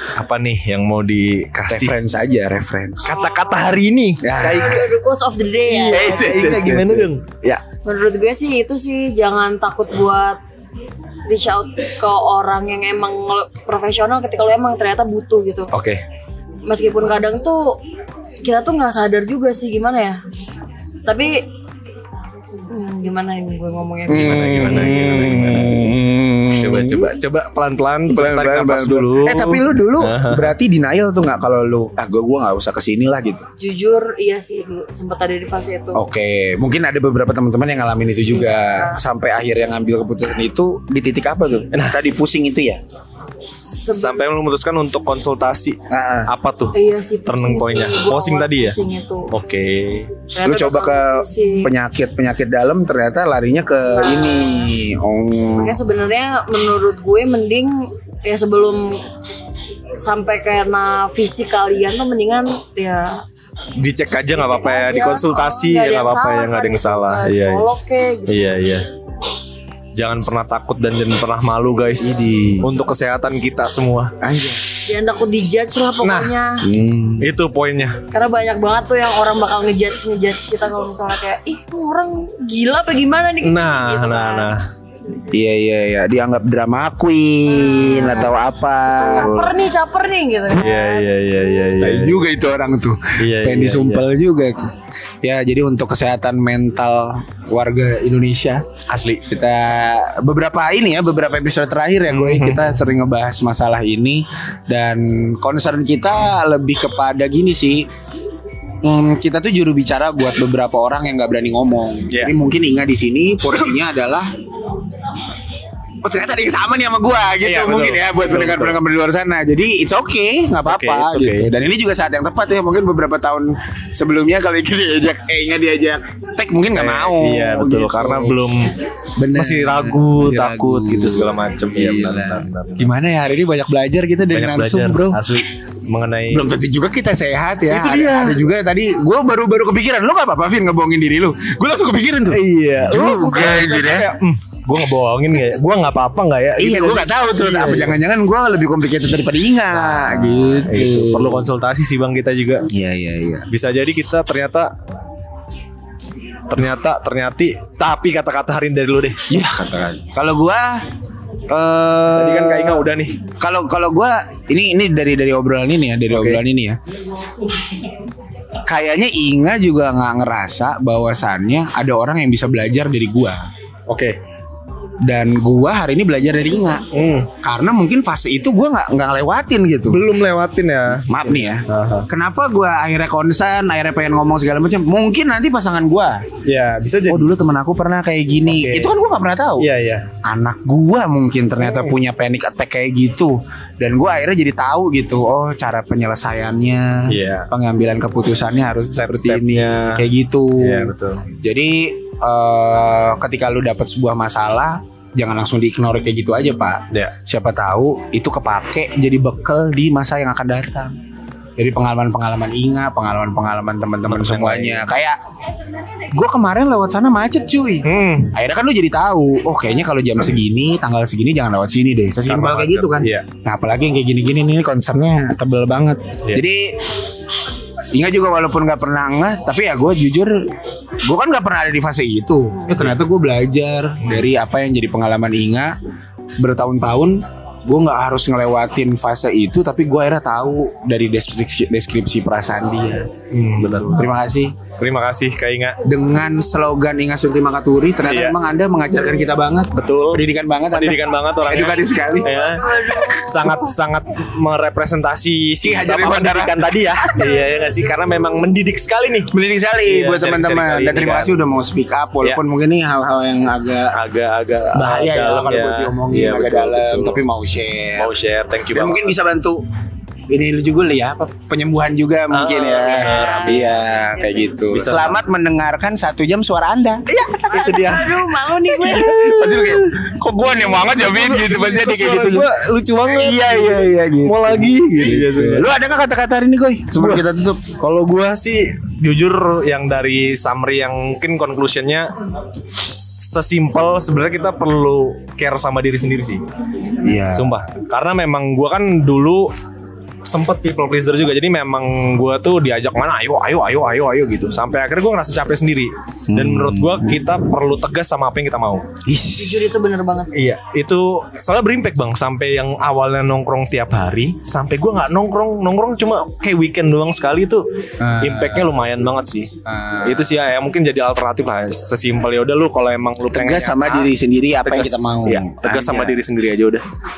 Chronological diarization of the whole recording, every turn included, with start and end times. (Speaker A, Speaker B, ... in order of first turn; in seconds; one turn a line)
Speaker A: 0.2-1.9
Speaker B: 1.7-3.1
Speaker A: 3.0-4.9
Speaker C: 3.1-3.7
Speaker B: 4.2-4.9
Speaker C: 4.3-6.8
Speaker A: 5.7-7.6
Speaker B: 5.9-7.1
Speaker C: 7.8-10.4
Speaker C: 11.3-15.7
Speaker A: 15.7-16.0
Speaker C: 16.7-17.8
Speaker C: 18.4-20.2
Speaker C: 21.1-21.4
Speaker C: 22.7-25.4
Speaker B: 24.1-27.1
Speaker A: 24.1-25.9
Speaker A: 26.6-30.5
Speaker B: 28.1-33.5
Speaker C: 33.6-36.0
Speaker B: 35.9-42.8
Speaker C: 38.3-39.0
Speaker C: 43.5-44.3
Speaker A: 43.9-48.8
Speaker B: 45.9-46.3
Speaker C: 46.7-49.3
Speaker A: 49.3-50.1
Speaker C: 50.3-51.7
Speaker B: 50.5-55.8
Speaker C: 53.9-54.7
Speaker C: 55.6-59.0
Speaker C: 60.0-63.2
Speaker A: 63.8-67.7
Speaker C: 64.3-68.3
Speaker A: 68.3-68.9
Speaker A: 70.0-74.1
Speaker B: 72.0-72.7
Speaker B: 74.2-74.6
Speaker C: 74.9-76.7
Speaker A: 76.0-76.3
Speaker B: 76.6-77.3
Speaker A: 77.2-78.0
Speaker C: 78.1-84.5
Speaker A: 83.4-84.6
Speaker B: 85.3-89.3
Speaker C: 87.5-88.4
Speaker C: 89.0-91.1
Speaker A: 89.2-89.6
Speaker A: 90.5-92.2
Speaker B: 91.8-94.7
Speaker A: 93.2-94.0
Speaker B: 95.2-98.7
Speaker A: 98.9-99.2
Speaker B: 99.3-107.9
Speaker A: 102.1-102.6
Speaker B: 108.8-114.3
Speaker B: 116.0-128.4
Speaker A: 117.4-118.8
Speaker A: 120.6-121.5
Speaker A: 126.8-128.7
Speaker B: 129.2-135.2
Speaker A: 129.3-132.9
Speaker A: 134.3-136.5
Speaker B: 136.3-144.1
Speaker A: 137.7-138.4
Speaker A: 142.3-148.0
Speaker B: 146.6-151.5
Speaker A: 149.7-152.7
Speaker B: 152.7-153.5
Speaker A: 153.5-154.7
Speaker A: 156.5-159.2
Speaker B: 159.3-160.8
Speaker B: 161.5-162.9
Speaker A: 162.2-163.2
Speaker B: 163.4-166.8
Speaker A: 166.1-166.4
Speaker B: 168.7-173.4
Speaker A: 173.9-174.2
Speaker B: 175.0-176.9
Speaker A: 176.9-177.3
Speaker B: 177.4-180.0
Speaker A: 179.9-182.1
Speaker B: 181.1-186.2
Speaker A: 186.5-187.3
Speaker B: 187.1-189.7
Speaker A: 188.5-188.9
Speaker A: 189.6-190.1
Speaker B: 190.2-210.9
Speaker A: 197.1-197.5
Speaker A: 198.9-200.1
Speaker A: 200.6-201.2
Speaker B: 211.6-215.2
Speaker A: 214.1-214.8
Speaker B: 216.1-226.8
Speaker A: 217.8-218.3
Speaker A: 222.3-223.3
Speaker B: 227.9-230.5
Speaker B: 231.1-235.8
Speaker B: 236.4-244.6
Speaker A: 243.3-244.1
Speaker A: 244.8-245.8
Speaker B: 245.8-252.4
Speaker A: 248.1-248.4
Speaker A: 249.8-259.3
Speaker C: 252.2-253.7
Speaker B: 255.6-257.4
Speaker B: 259.3-264.0
Speaker A: 259.9-261.3
Speaker A: 263.9-267.2
Speaker B: 264.7-268.1
Speaker A: 268.0-269.1
Speaker B: 268.7-269.6
Speaker B: 270.3-277.1
Speaker A: 272.3-273.7
Speaker C: 272.7-274.5
Speaker A: 274.7-275.2
Speaker A: 277.1-280.0
Speaker C: 277.3-279.1
Speaker B: 278.6-282.5
Speaker A: 280.5-285.7
Speaker B: 283.1-287.8
Speaker A: 287.0-287.2
Speaker A: 287.8-292.1
Speaker A: 292.8-296.4
Speaker B: 297.0-297.6
Speaker A: 297.3-299.5
Speaker A: 300.3-308.9
Speaker B: 306.3-307.2
Speaker B: 309.1-309.7
Speaker C: 309.4-310.3
Speaker A: 310.3-317.6
Speaker B: 318.0-318.7
Speaker A: 318.2-319.5
Speaker B: 319.6-320.4
Speaker A: 320.1-324.1
Speaker B: 323.3-326.2
Speaker A: 324.7-326.8